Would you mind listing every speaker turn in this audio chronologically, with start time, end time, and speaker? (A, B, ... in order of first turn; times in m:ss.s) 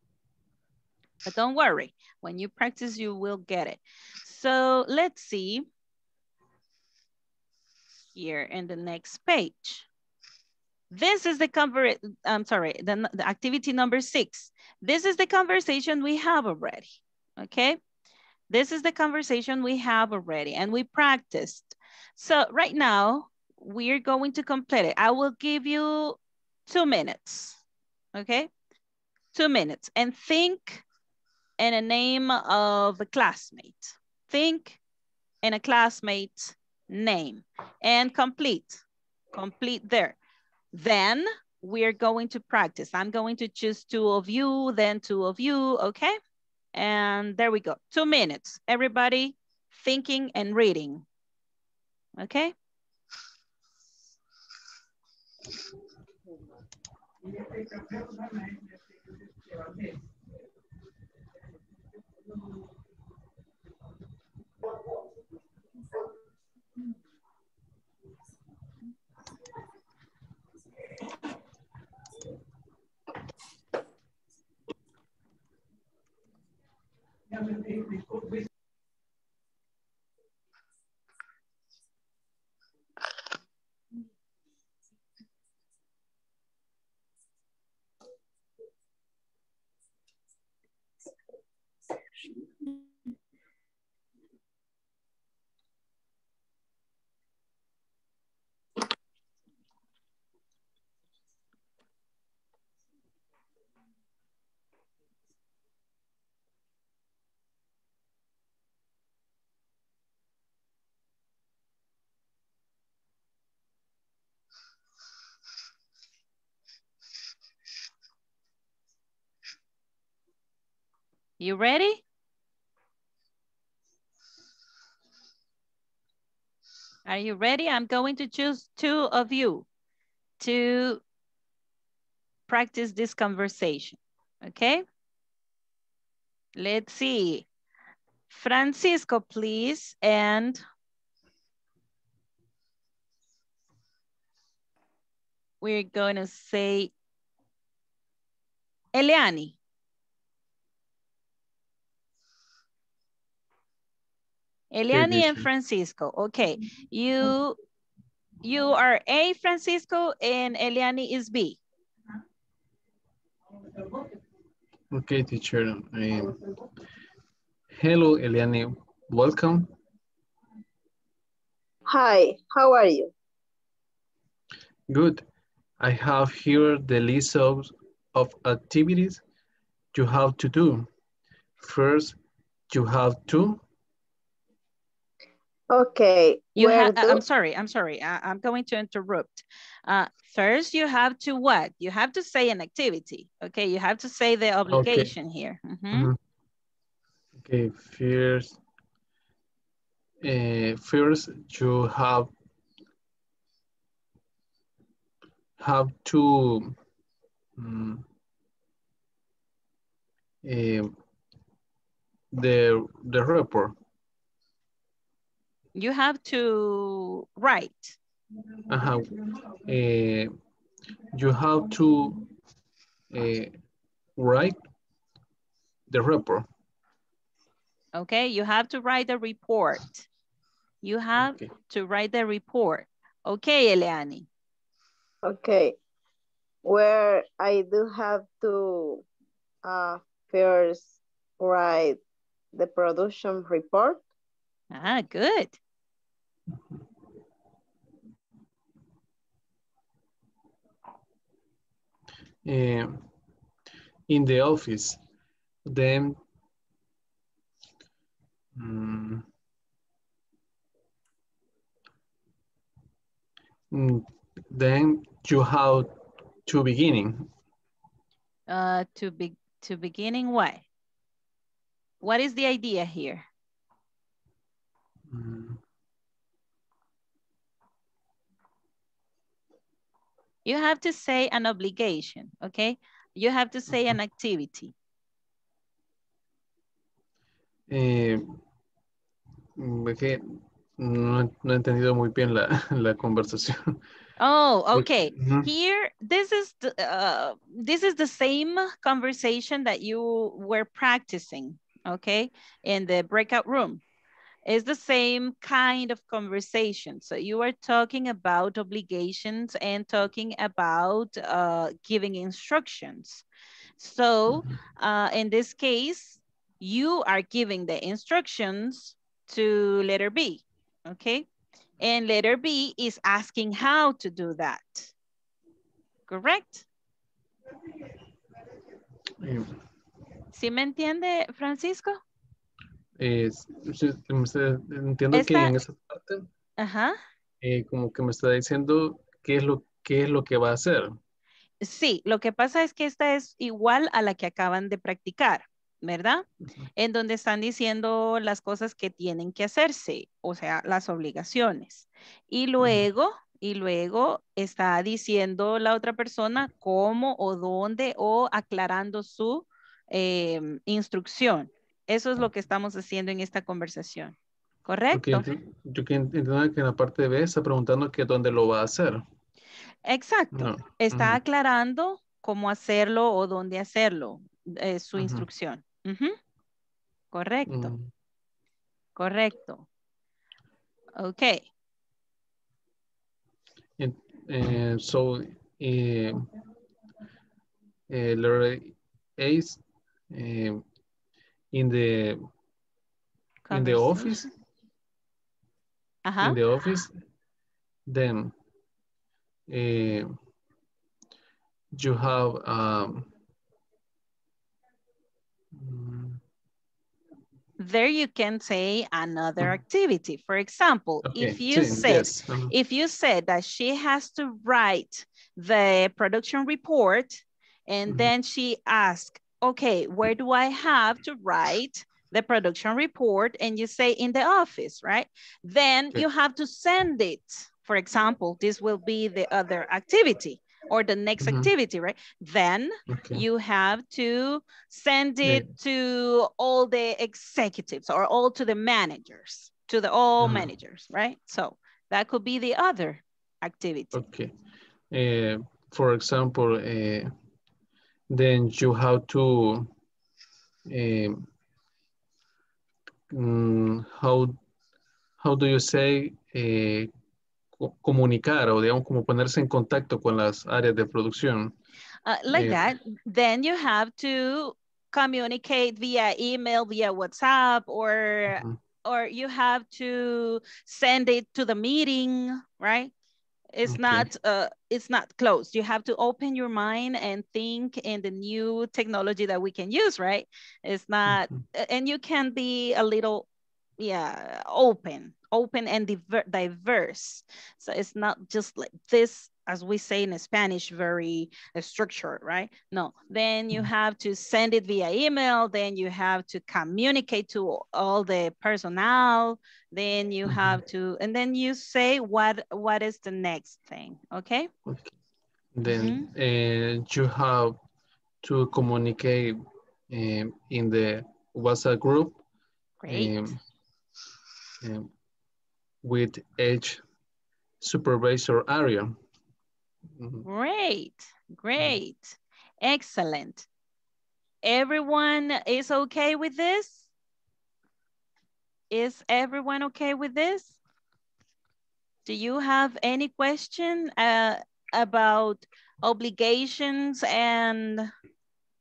0:01.2-0:05.6 A
0:08.0-0:09.9 A
0:10.9-0:16.9 A
0:17.4-0:17.8 A
0:18.5-0:26.2 A
0:26.7-0:27.6 A
0:28.1-0:28.5 A
0:29.3-0:30.8 A
0:31.6-0:34.8 A
0:35.4-0:40.2 A
0:40.7-0:46.2 A
0:46.7-0:51.0 A
0:52.2-0:52.5 A
2:01.4-2:02.0 A
2:07.0-2:09.6 A
2:10.4-2:11.0 A
2:12.5-2:14.8 A
2:16.6-2:17.5 A
2:18.3-2:20.6 A
2:25.6-2:26.9 A
2:28.9-2:29.6 A
2:34.7-2:37.6 A
2:34.9-2:35.5 B
2:38.4-2:41.6 A
2:44.9-2:46.4 B
2:47.7-2:49.7 B
2:51.9-2:53.1 C
2:54.9-2:55.2 B
2:55.8-2:59.2 B
2:59.9-3:00.9 B
3:01.6-3:02.2 B
3:02.7-3:03.6 B
3:05.7-3:07.2 C
3:06.6-3:16.1 A
3:14.7-3:15.1 B
3:15.9-3:16.2 B
3:17.4-3:18.6 B
3:20.2-3:22.3 B
3:25.6-3:26.8 B
3:27.6-3:28.0 B
3:30.4-3:30.9 B
3:32.3-3:33.8 B
3:35.8-3:38.0 A
3:38.7-3:40.3 B
3:41.1-3:42.2 B
3:43.1-3:43.5 B
3:44.2-3:44.6 B
3:45.9-3:46.5 B
3:47.9-3:50.1 A
3:50.8-3:54.3 A
3:51.2-3:51.5 B
3:55.2-3:55.8 C
3:56.6-3:59.0 C
3:59.6-4:02.0 C
4:02.5-4:04.0 C
4:04.7-4:05.6 A
4:12.4-4:13.0 B
4:14.1-4:15.0 B
4:15.6-4:16.2 B
4:18.5-4:19.2 B
4:23.7-4:25.9 B
4:26.4-4:27.3 B
4:28.5-4:30.6 A
4:32.0-4:33.2 A
4:35.1-4:35.6 B
4:40.4-4:44.7 A
4:47.7-4:48.4 B
4:49.6-4:53.8 B
4:54.2-5:03.8 A
4:54.7-4:55.5 B
5:04.4-5:13.2 A
5:13.8-5:21.2 A
5:21.8-5:24.9 A
5:26.1-5:26.6 A
5:29.2-5:29.5 B
5:30.3-5:32.0 A
5:33.0-5:36.3 B
5:35.1-5:35.5 A
5:36.6-5:37.0 A
5:37.4-5:41.0 B
5:41.6-5:46.2 A
5:46.8-6:05.3 A
5:52.6-5:52.8 B
6:04.9-6:09.0 B
6:09.8-6:16.2 A
6:10.3-6:11.2 B
6:15.0-6:15.3 B
6:17.1-6:17.7 A
6:17.4-6:17.9 B
6:19.0-6:19.6 A
6:21.0-6:21.4 A
6:23.8-6:26.2 B
6:27.9-6:30.6 B
6:31.5-6:32.2 B
6:33.4-6:34.2 A
6:33.5-6:34.3 B
6:36.0-6:36.4 A
6:36.2-6:36.9 B
6:37.9-6:38.3 B
6:39.5-6:40.1 B
6:41.7-6:43.1 B
6:45.5-6:46.2 B
6:47.6-7:24.0 A
6:51.0-6:52.5 B
6:57.8-6:58.1 B
7:11.2-7:11.5 B
7:12.9-7:13.2 B
7:15.2-7:15.5 B
7:20.2-7:20.5 B
7:23.9-7:24.3 B
7:24.9-7:27.1 B
7:28.1-7:29.7 B
7:30.7-7:31.3 B
7:33.1-7:34.4 B
7:35.2-7:36.9 B
7:37.6-7:41.5 B
7:42.0-7:52.9 A
7:42.3-7:42.7 B
7:48.3-7:48.6 B
7:53.5-8:03.2 A
7:53.6-7:54.1 B
8:01.0-8:01.4 B
8:03.8-8:24.5 A
8:20.2-8:20.6 B
8:24.6-8:24.9 B
8:25.5-8:27.6 B
8:25.6-8:26.1 A
8:28.2-8:32.2 B
8:32.8-8:33.3 A
8:32.9-8:33.4 B
8:34.6-8:34.9 B
8:35.8-8:36.8 B
8:37.6-8:39.0 B
8:40.0-8:40.2 B
8:40.2-8:43.5 A
8:44.4-8:46.9 A
8:48.7-8:50.6 A
8:52.0-8:57.9 A